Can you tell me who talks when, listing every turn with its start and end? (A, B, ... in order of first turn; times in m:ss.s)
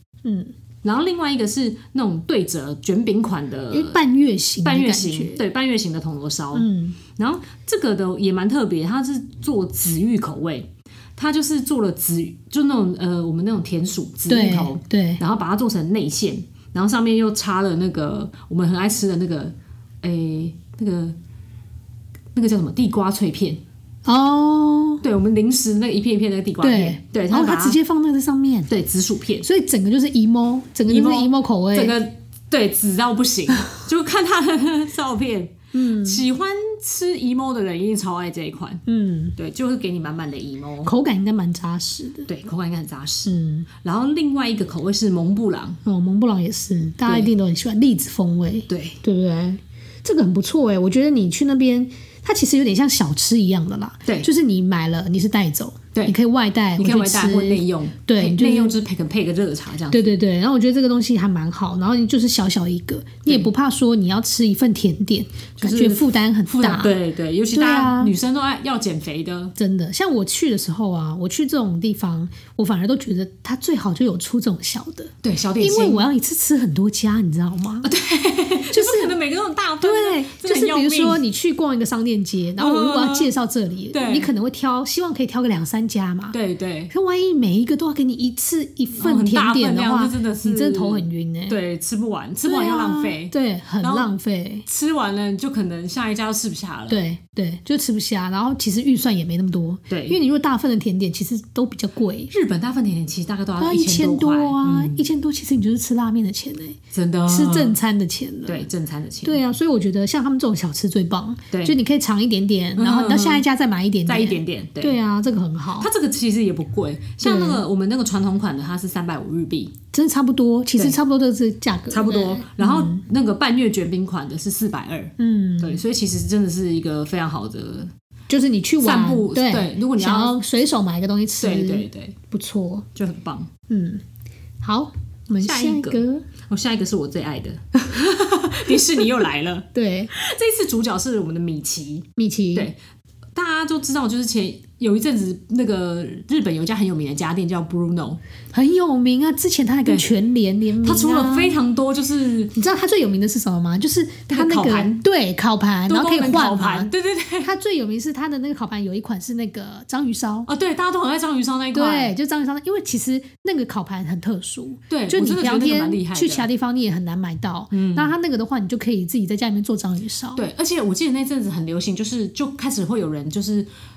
0:00.2-0:00.5 A
0:00.8-0:04.0 B
0:03.7-0:05.4 A
0:04.6-0:21.2 B
0:06.5-0:07.0 A
0:14.3-0:15.2 A
0:22.3-0:23.6 B
0:24.0-0:25.0 A
0:25.0-0:27.8 B
0:26.6-0:28.7 A
0:28.7-0:29.5 B
0:29.4-0:32.0 A
0:30.9-0:38.8 B
0:35.7-0:36.2 A
0:38.8-0:39.3 A
0:39.4-0:40.9 B
0:40.8-0:42.3 A
0:42.3-0:45.8 B
0:43.2-0:43.7 A
0:45.8-0:58.8 A
0:47.0-0:47.3 B
0:48.7-0:49.0 B
0:56.8-1:00.1 B
0:59.9-1:07.0 A
1:05.6-1:09.5 B
1:07.5-1:08.1 A
1:09.6-1:17.9 A
1:15.2-1:16.0 B
1:17.8-1:21.2 B
1:18.7-1:19.2 A
1:19.8-1:26.4 A
1:22.6-1:23.3 B
1:23.9-1:24.3 B
1:26.3-1:26.9 B
1:26.9-1:31.6 A
1:29.0-1:34.1 B
1:32.4-1:34.6 A
1:34.6-1:37.0 B
1:36.9-1:42.3 A
1:39.9-1:40.2 B
1:42.3-1:45.0 B
1:43.6-1:48.7 A
1:46.9-1:47.8 B
1:48.4-1:49.4 B
1:49.2-1:55.9 A
1:51.5-1:51.8 B
1:52.8-1:53.4 B
1:54.0-1:55.0 B
1:55.8-1:59.7 B
1:57.2-1:57.6 A
1:59.9-2:03.0 A
2:01.9-2:07.9 B
2:05.2-2:05.8 A
2:08.3-2:12.8 A
2:08.8-2:10.4 B
2:11.4-2:12.2 B
2:12.9-2:13.5 B
2:13.7-2:14.0 A
2:14.6-2:16.2 A
2:15.4-2:22.8 B
2:18.7-2:19.0 A
2:19.7-2:20.1 A
2:22.2-2:22.7 A
2:23.3-2:28.2 B
2:28.5-2:31.6 A
2:30.8-2:32.5 B
2:32.5-2:40.5 A
2:34.3-2:35.0 B
2:35.9-2:37.5 B
2:40.5-2:42.1 B
2:41.7-2:50.4 A
2:44.9-2:46.5 B
2:47.7-2:48.1 B
2:50.3-2:53.7 B